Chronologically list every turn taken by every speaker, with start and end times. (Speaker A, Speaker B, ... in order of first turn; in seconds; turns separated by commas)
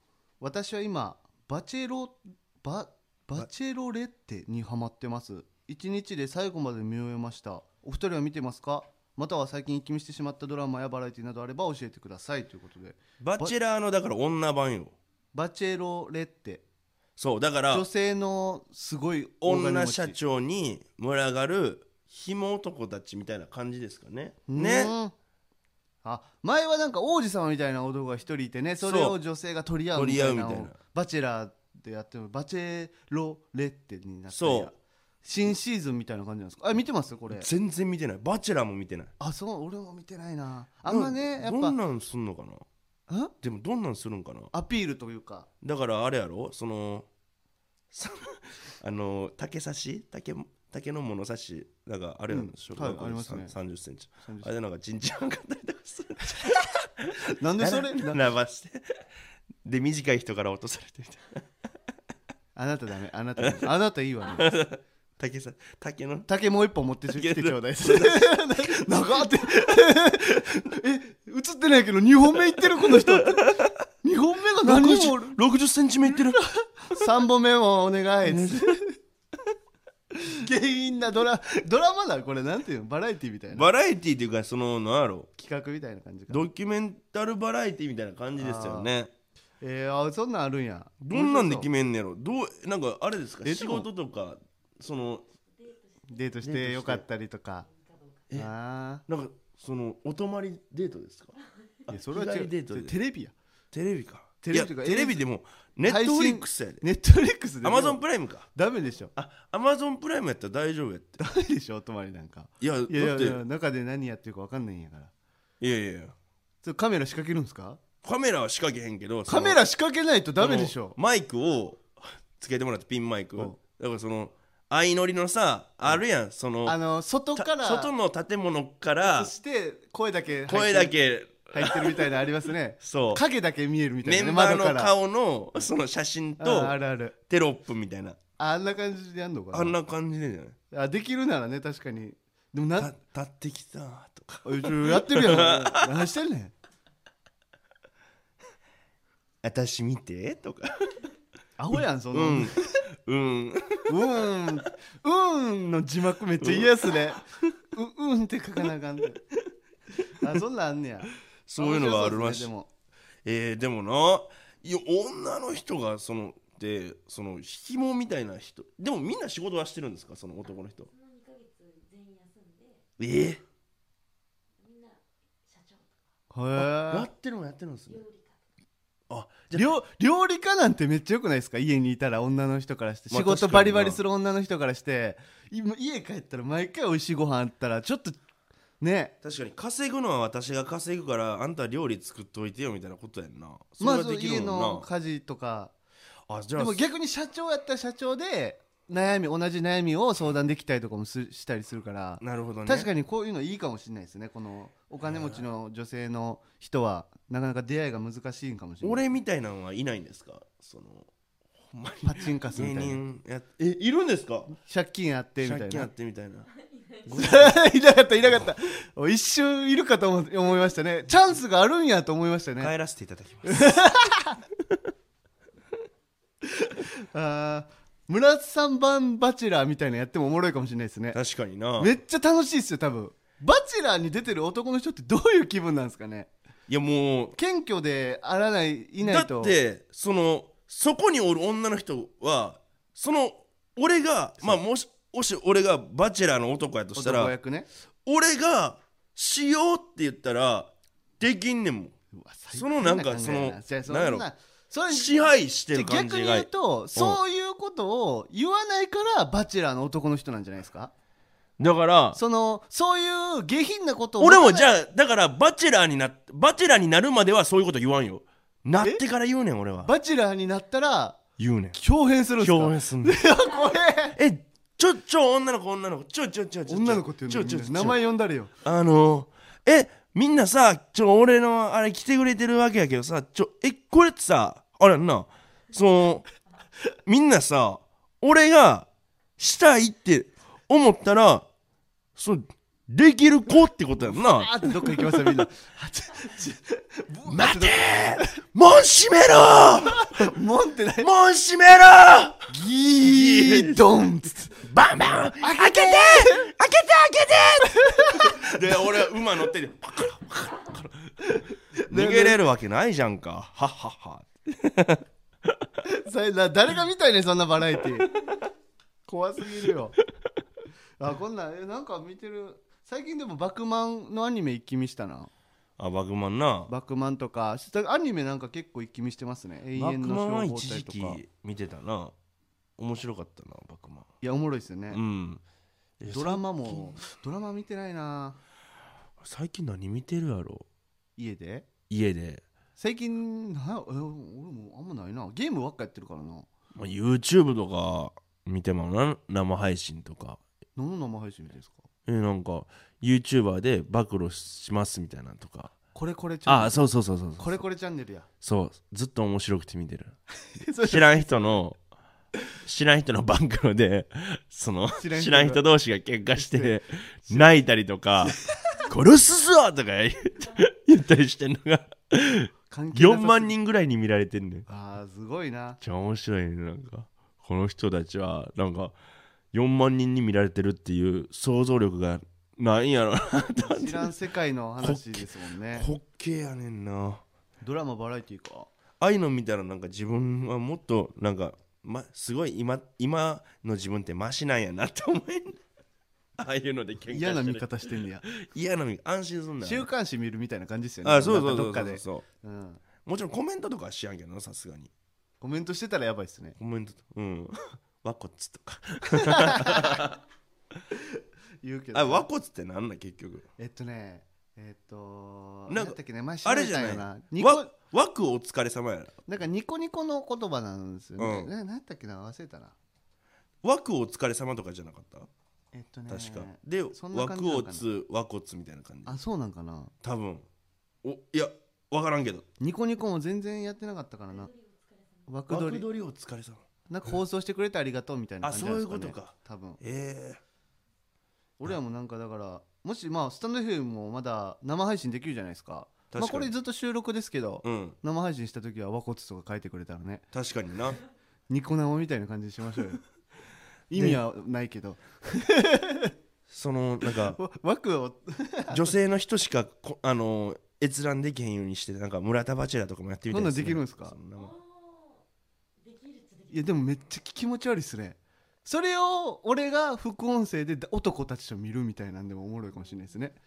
Speaker A: 0.4-13.6, Speaker B: 13.2-14.9, Speaker A: 15.3-16.6, Speaker B: 17.2-17.9, Speaker A: 17.7-20.1, Speaker B: 19.4-24.9, Speaker A: 24.5-25.1, Speaker A: 26.0-37.5, Speaker B: 28.8-29.1, Speaker B: 29.9-30.8, Speaker B: 34.3-34.7, Speaker B: 37.3-39.1, Speaker A: 39.2-41.8, Speaker B: 40.9-42.6, Speaker B: 43.4-44.5, Speaker A: 44.5-45.5, Speaker B: 45.6-47.1, Speaker B: 47.9-58.9, Speaker A: 52.3-53.5, Speaker A: 57.2-58.2, Speaker B: 59.6-61.4, Speaker A: 62.5-64.5, Speaker B: 63.4-63.7, Speaker B: 64.2-66.3, Speaker A: 66.3-75.4, Speaker B: 67.2-69.2, Speaker B: 72.6-73.7, Speaker B: 74.6-76.4, Speaker A: 76.1-78.9, Speaker B: 78.2-78.7, Speaker A: 80.2-83.7, Speaker B: 83.5-85.3, Speaker A: 85.4-86.4, Speaker B: 86.3-89.1, Speaker A: 88.4-88.9, Speaker A: 89.6-91.7, Speaker B: 91.0-95.2, Speaker A: 93.4-93.9, Speaker C: 95.5-96.4, Speaker A: 96.1-97.7, Speaker B: 96.4-97.0, Speaker C: 97.6-98.3, Speaker A: 98.3-99.0, Speaker B: 99.1-101.3, Speaker B: 101.9-102.9, Speaker A: 101.9-103.3, Speaker B: 103.7-106.8, Speaker A: 104.4-105.2, Speaker A: 105.8-108.0, Speaker B: 107.6-108.5, Speaker A: 108.5-109.1, Speaker B: 109.2-111.2, Speaker A: 111.2-115.1, Speaker B: 112.6-113.4, Speaker B: 115.6-116.1, Speaker A: 116.6-117.8, Speaker B: 118.0-119.6, Speaker A: 119.3-121.0, Speaker B: 120.4-126.8, Speaker A: 126.6-127.9, Speaker B: 127.3-129.3, Speaker A: 129.0-131.0, Speaker B: 130.5-132.2, Speaker A: 131.5-134.9, Speaker B: 132.8-133.2, Speaker B: 134.0-136.8, Speaker A: 136.4-137.1, Speaker B: 137.3-138.2, Speaker A: 138.4-139.8, Speaker B: 139.5-140.6, Speaker A: 140.7-142.9, Speaker B: 142.8-145.9, Speaker A: 144.4-146.5, Speaker B: 149.4-150.9, Speaker A: 151.6-152.7, Speaker B: 152.1-154.2, Speaker A: 153.9-159.2, Speaker B: 156.4-156.9, Speaker A: 160.0-162.7, Speaker B: 161.5-162.5, Speaker B: 163.2-170.9, Speaker C: 170.5-172.8, Speaker B: 173.0-173.4, Speaker C: 174.6-176.0, Speaker A: 176.3-177.1, Speaker B: 176.6-178.0, Speaker C: 177.9-178.4, Speaker B: 179.1-179.6, Speaker A: 179.5-188.2, Speaker B: 183.1-184.0, Speaker A: 188.8-189.1, Speaker B: 189.2-194.8, Speaker A: 193.8-195.7, Speaker B: 196.3-196.8, Speaker A: 196.6-209.1, Speaker B: 202.2-202.9, Speaker B: 205.1-205.4, Speaker B: 208.8-211.1, Speaker B: 211.7-214.5, Speaker A: 212.0-213.0, Speaker A: 214.5-215.9, Speaker B: 215.4-216.5, Speaker C: 216.8-217.1, Speaker B: 217.1-217.6, Speaker A: 217.1-222.7, Speaker B: 222.6-223.7, Speaker A: 223.4-224.4, Speaker A: 226.4-231.2, Speaker B: 231.1-231.9, Speaker A: 231.8-236.3, Speaker B: 236.7-237.3, Speaker A: 237.3-239.6, Speaker B: 239.0-247.3, Speaker A: 246.9-247.7, Speaker B: 248.1-251.9, Speaker A: 252.1-260.9, Speaker B: 252.5-254.3, Speaker B: 254.9-257.2, Speaker B: 261.6-262.2, Speaker A: 262.1-264.7, Speaker B: 264.2-269.9, Speaker A: 269.8-271.2, Speaker B: 271.4-271.8, Speaker A: 271.7-274.2, Speaker B: 272.4-273.2, Speaker B: 274.1-278.0, Speaker A: 276.7-278.5, Speaker B: 278.6-286.3, Speaker B: 287.1-291.4, Speaker B: 292.2-295.4, Speaker A: 294.0-298.4, Speaker B: 297.3-300.3, Speaker A: 299.8-301.1, Speaker B: 301.0-302.5, Speaker A: 302.5-304.6, Speaker B: 303.0-303.8, Speaker B: 304.6-311.1, Speaker A: 305.4-306.5, Speaker A: 307.6-308.6, Speaker A: 311.3-312.4, Speaker B: 311.9-315.0, Speaker A: 315.8-318.1, Speaker A: 319.1-320.0, Speaker A: 321.0-325.3, Speaker B: 325.8-326.7, Speaker A: 326.7-331.2, Speaker B: 329.8-332.1, Speaker B: 332.8-334.1, Speaker A: 334.2-335.0, Speaker B: 334.9-335.4, Speaker B: 336.0-337.0, Speaker A: 336.1-338.4, Speaker B: 339.2-340.6, Speaker A: 341.2-341.6, Speaker B: 341.9-342.4, Speaker A: 342.8-346.5, Speaker B: 346.7-350.4, Speaker A: 350.8-351.8, Speaker B: 352.1-355.7, Speaker A: 355.9-356.9, Speaker B: 356.4-357.6, Speaker A: 357.4-358.3, Speaker B: 358.4-360.1, Speaker A: 360.6-361.6, Speaker B: 360.8-361.8, Speaker B: 362.6-368.4, Speaker A: 365.0-365.6, Speaker A: 366.4-366.7, Speaker B: 368.9-374.6, Speaker A: 372.7-373.5, Speaker A: 374.7-375.8, Speaker B: 375.8-378.9, Speaker B: 379.5-384.1, Speaker A: 383.6-385.9, Speaker B: 384.8-387.2, Speaker A: 387.6-388.7, Speaker B: 389.0-395.6, Speaker B: 396.4-397.7, Speaker A: 397.1-398.2, Speaker B: 398.2-399.9, Speaker A: 399.6-402.8, Speaker B: 401.0-402.2, Speaker B: 403.0-404.9, Speaker A: 405.4-406.6, Speaker B: 406.6-410.2, Speaker A: 409.1-410.0, Speaker A: 410.9-412.3, Speaker B: 411.9-413.4, Speaker A: 413.6-417.7, Speaker B: 415.7-419.2, Speaker A: 419.2-422.7, Speaker B: 421.2-421.5, Speaker B: 423.6-425.3, Speaker A: 425.7-427.8, Speaker B: 426.1-429.1, Speaker A: 429.1-429.9, Speaker B: 430.0-430.4, Speaker B: 431.0-432.4, Speaker A: 432.6-434.5, Speaker C: 434.3-435.3, Speaker A: 435.3-435.8, Speaker B: 435.5-436.6, Speaker A: 436.9-439.8, Speaker B: 438.4-440.4, Speaker A: 441.6-450.2, Speaker B: 446.1-446.5, Speaker B: 447.6-447.9, Speaker B: 450.3-451.0, Speaker A: 451.5-453.0, Speaker A: 453.9-456.1, Speaker B: 453.9-454.2, Speaker B: 456.5-457.4, Speaker A: 457.1-458.9, Speaker B: 458.7-464.5, Speaker A: 463.3-464.1, Speaker C: 464.4-465.2, Speaker C: 465.8-466.9, Speaker A: 466.5-473.4